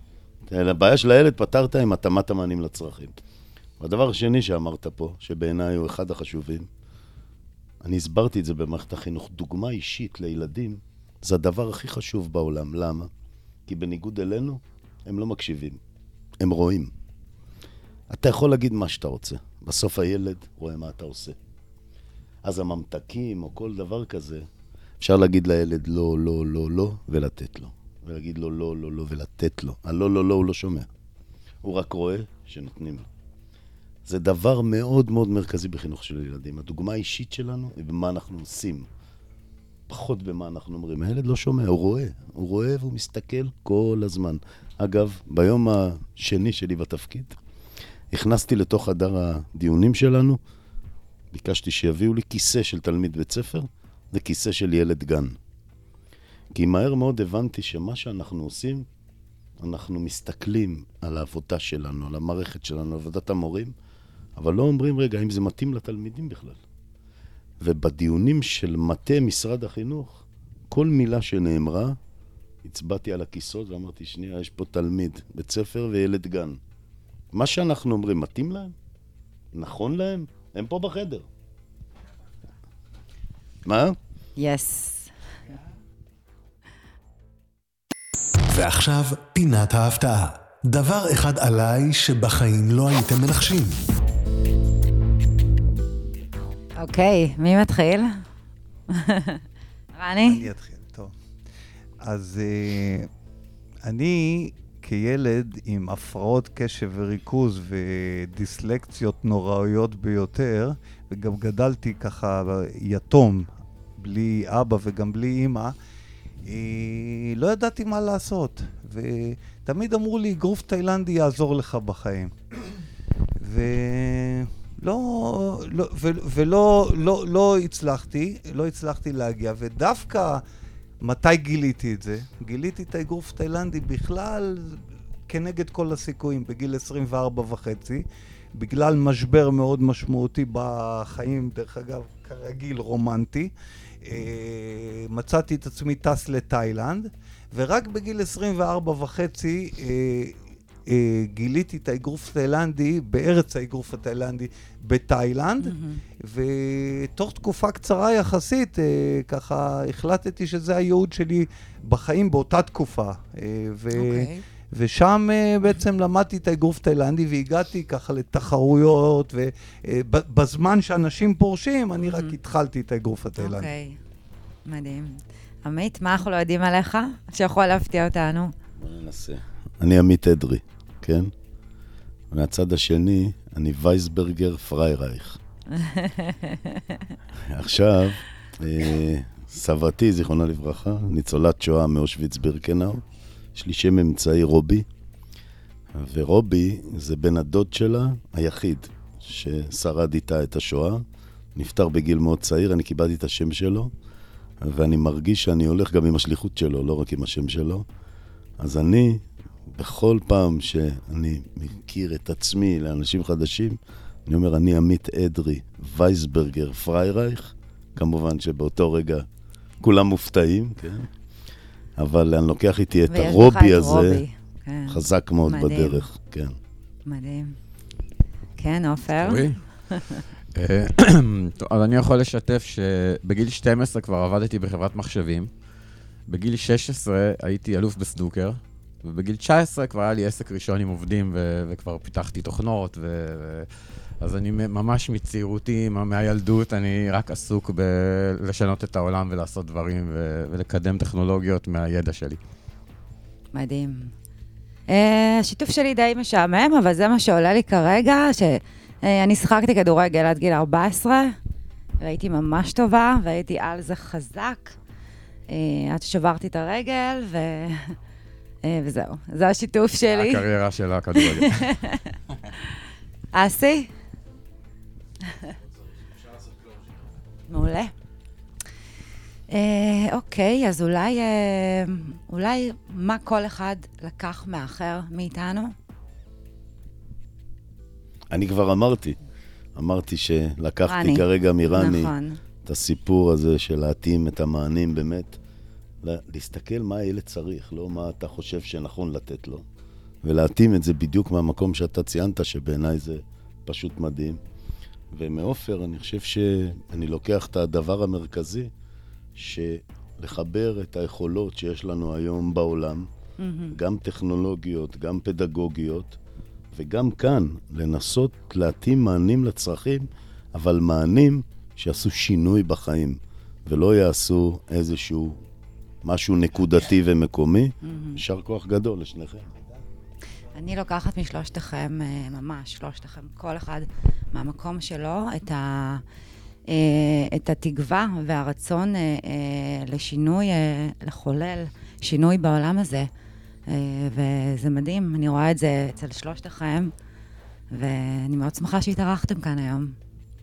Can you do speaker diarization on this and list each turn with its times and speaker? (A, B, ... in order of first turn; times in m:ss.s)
0:00.5-0:03.2 A
0:03.8-0:06.7 A
0:07.8-0:13.1 A
0:13.7-0:15.8 A
0:16.4-0:16.9 A
0:18.1-0:21.4 A
0:22.4-0:24.5 A
0:25.0-0:30.9 A
0:31.6-0:33.1 A
0:34.0-0:38.9 A
0:39.9-0:47.4 A
0:48.1-0:50.4 A
0:51.3-0:55.4 A
0:56.5-0:58.8 A
0:59.6-1:03.7 A
1:04.4-1:06.6 A
1:07.6-1:12.0 A
1:12.6-1:16.6 A
1:17.3-1:18.7 A
1:19.5-1:21.2 A
1:23.6-1:24.0 A
1:24.4-1:25.1 B
1:28.5-1:33.8 C
1:36.8-1:38.2 B
1:38.9-1:39.4 B
1:39.9-1:40.4 B
1:40.2-1:41.1 D
1:42.0-1:43.1 D
1:43.8-1:55.7 D
1:56.4-2:02.3 D
2:03.4-2:10.4 D
2:11.0-2:18.0 D
2:18.6-2:23.5 D
2:24.0-2:53.7 D
2:35.6-2:36.0 B
2:43.9-2:44.4 B
2:52.0-2:52.3 B
2:53.4-2:54.0 B
2:54.6-2:58.5 B
2:58.8-3:01.3 A
3:02.3-3:05.4 A
3:05.7-3:07.1 B
3:07.4-3:13.0 A
3:13.5-3:14.8 A
3:15.9-3:21.0 A
3:21.6-3:23.9 A
3:24.6-3:27.8 A
3:28.6-3:39.3 A
3:39.8-3:41.1 A
3:42.0-3:44.2 A
3:43.1-3:46.0 B
3:44.9-3:46.6 A
3:47.0-3:47.6 B
3:48.6-3:50.2 B
3:49.2-3:49.6 E
3:50.5-3:55.5 E
3:56.3-4:03.7 E
4:04.2-4:12.4 E
4:13.5-4:14.1 B
4:14.9-4:21.4 B
4:22.0-4:24.8 B
4:25.5-4:28.0 B
4:28.6-4:30.4 B
4:30.1-4:31.7 E
4:31.1-4:32.1 B
4:33.3-4:33.9 B
4:35.3-4:35.5 B
4:37.5-4:37.9 B
4:39.5-4:45.7 B
4:48.3-4:49.2 A
4:49.8-4:52.1 A
4:50.9-4:52.4 B
4:52.6-4:55.4 A
4:56.0-4:59.6 A
5:00.2-5:04.4 A
5:05.1-5:08.7 A
5:09.4-5:13.1 A
5:13.4-5:13.8 B
5:13.7-5:16.2 A
5:16.7-5:25.4 A
5:26.0-5:29.6 A
5:27.8-5:28.2 B
5:30.5-5:36.0 B
5:36.7-5:43.1 B
5:43.7-5:46.9 B
5:47.7-5:50.0 B